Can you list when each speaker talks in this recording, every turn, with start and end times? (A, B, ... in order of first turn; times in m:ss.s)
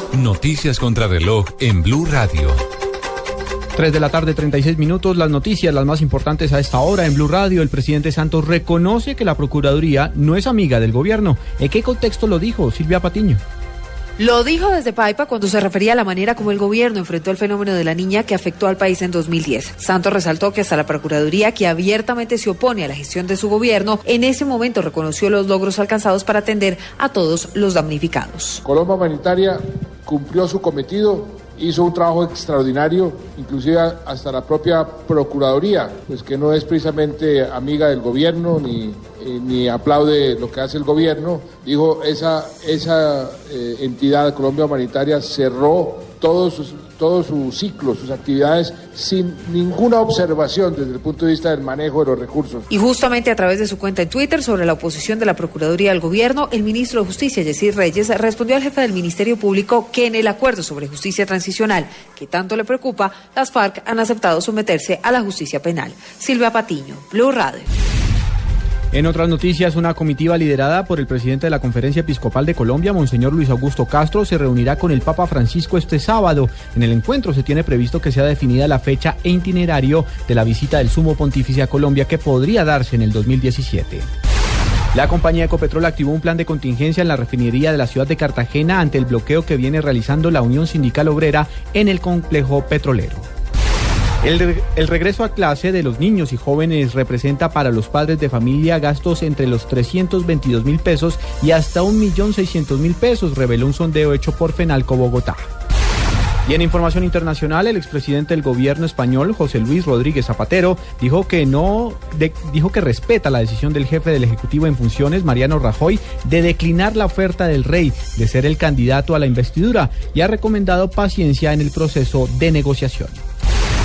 0:00.1-0:02.6 A
0:03.8-0:13.4 B
0:14.2-0:28.6 C
0:28.6-0:52.7 D
0:52.7-1:07.7 C
1:08.9-1:24.1 B
1:24.9-1:33.3 B
1:34.2-1:45.4 B
1:46.5-2:03.2 B